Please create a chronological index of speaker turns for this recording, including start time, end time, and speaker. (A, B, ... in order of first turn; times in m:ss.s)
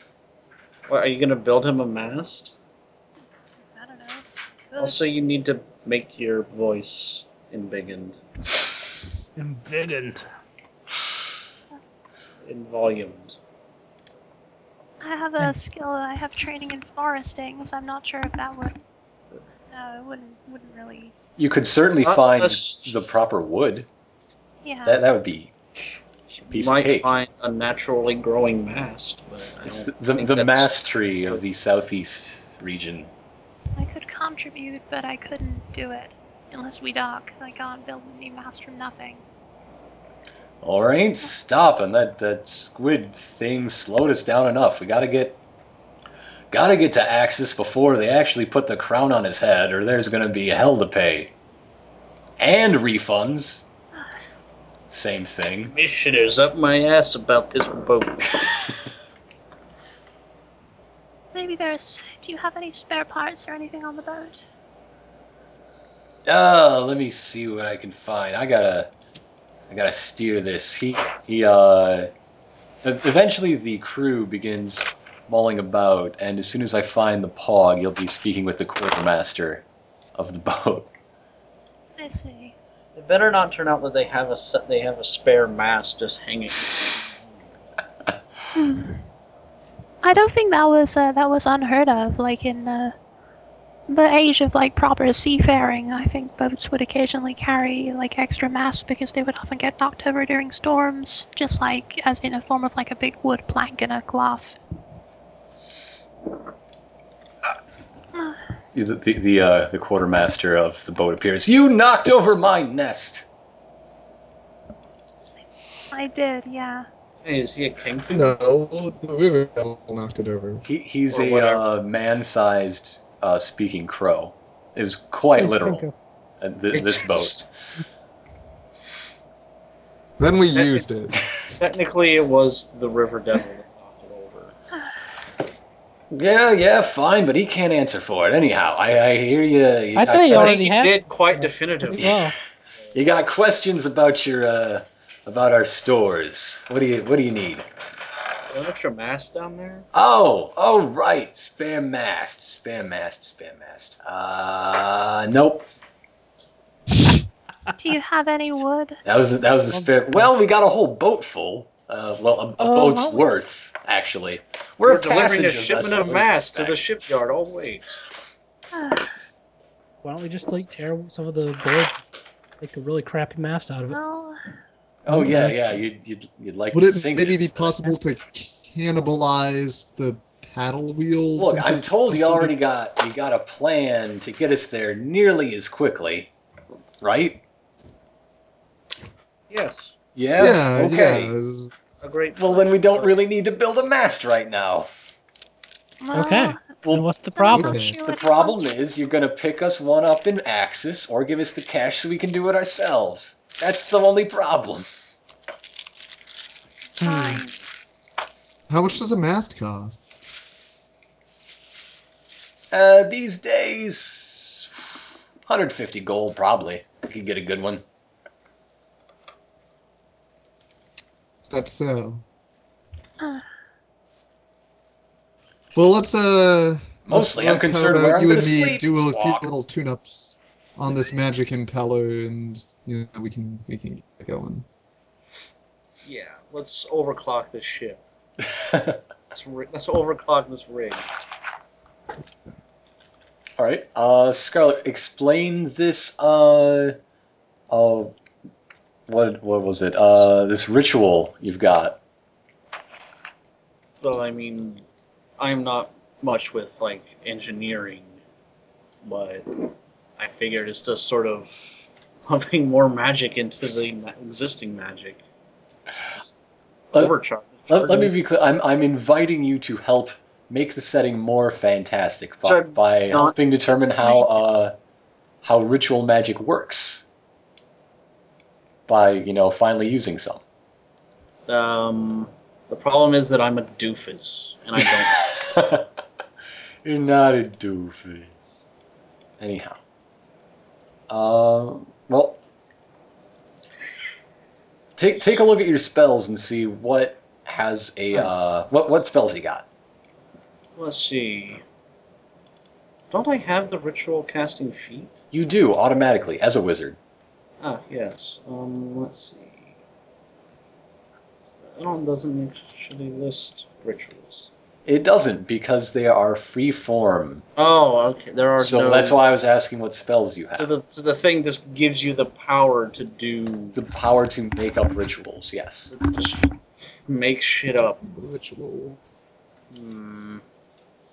0:00.9-0:02.5 A
0:03.7-0:05.0 B
0:04.8-0:08.2 A
0:09.4-0:10.2 C
0:12.4-0:13.4 A
0:15.0-0:18.7 B
0:19.7-0:21.1 B
0:21.4-0:23.9 D
0:22.0-0:23.0 A
0:24.6-0:25.0 B
0:24.8-0:25.5 D
0:26.4-0:31.4 A
0:26.5-0:27.1 D
0:29.6-0:33.1 D
0:33.8-0:39.2 B
0:40.6-0:45.4 D
0:46.5-0:51.3 D
0:52.4-0:53.7 D
0:54.9-0:55.7 D
0:55.6-0:58.4 A
1:01.3-1:04.4 B
1:06.2-1:08.9 D
1:09.7-1:12.1 D
1:12.8-1:19.6 D
1:20.2-1:20.9 D
1:22.0-1:22.5 B
1:22.9-1:27.4 A
1:28.5-1:29.0 B
1:30.0-1:33.0 B
1:33.9-1:44.6 B
1:48.7-1:53.2 D
1:55.9-1:56.9 B
1:57.2-1:58.4 A
1:58.1-2:00.6 E
2:00.6-2:05.8 D
2:01.1-2:01.6 A
2:05.4-2:05.9 C
2:06.4-2:07.4 D
2:06.7-2:07.4 A
2:10.2-2:11.2 E
2:10.5-2:10.9 A
2:11.6-2:14.5 A
2:16.1-2:20.6 D
2:19.9-2:22.3 C
2:20.3-2:22.1 A
2:22.9-2:27.6 D
2:28.5-2:29.8 A
2:29.9-2:35.7 D
2:37.8-2:39.0 B
2:39.0-2:46.8 D
2:39.7-2:40.3 C
2:42.6-2:43.4 C
2:44.8-2:48.0 A
2:48.7-2:49.1 B
2:50.0-2:52.0 C
2:52.6-2:54.0 C
2:53.9-2:54.4 B
2:55.0-2:57.7 D
2:55.1-2:55.8 E
2:56.7-3:02.5 E
3:01.4-3:06.3 D
3:07.0-3:07.4 D
3:09.5-3:09.9 A
3:10.1-3:11.3 D
3:10.4-3:12.0 E
3:12.0-3:13.2 A
3:12.4-3:14.9 D
3:16.0-3:16.8 B
3:16.1-3:17.8 C
3:17.3-3:18.7 B
3:17.5-3:18.0 E
3:18.0-3:24.9 D
3:27.0-3:27.5 B
3:27.1-3:27.4 C
3:28.7-3:30.0 E
3:32.7-3:34.7 D
3:35.4-3:37.8 D
3:41.4-3:42.2 E
3:45.7-3:54.6 E
3:47.0-3:49.5 D
3:56.0-3:58.0 A
3:58.5-3:59.0 D
3:59.3-4:01.0 A
4:03.6-4:07.0 D
4:07.7-4:08.1 D
4:09.1-4:12.0 D
4:14.0-4:14.8 A
4:15.4-4:18.2 A
4:19.0-4:19.6 A
4:20.2-4:25.2 A
4:26.9-4:28.2 A
4:27.7-4:34.7 D
4:32.4-4:33.4 A
4:34.0-4:34.3 B
4:35.4-4:37.0 D
4:38.9-4:40.4 D
4:41.5-4:45.2 A
4:45.2-4:45.9 D
4:46.8-4:48.5 D
4:49.4-4:49.8 D
4:51.1-4:52.4 D
4:55.0-4:59.6 D
5:00.8-5:01.6 A
5:03.1-5:05.2 A
5:05.3-5:07.0 D
5:07.6-5:09.6 A
5:11.7-5:14.5 A
5:14.8-5:17.4 D
5:17.6-5:19.2 A
5:18.6-5:20.7 D
5:20.6-5:23.8 A
5:23.7-5:25.9 D
5:25.9-5:28.0 A
5:28.0-5:29.0 E
5:29.7-5:30.4 A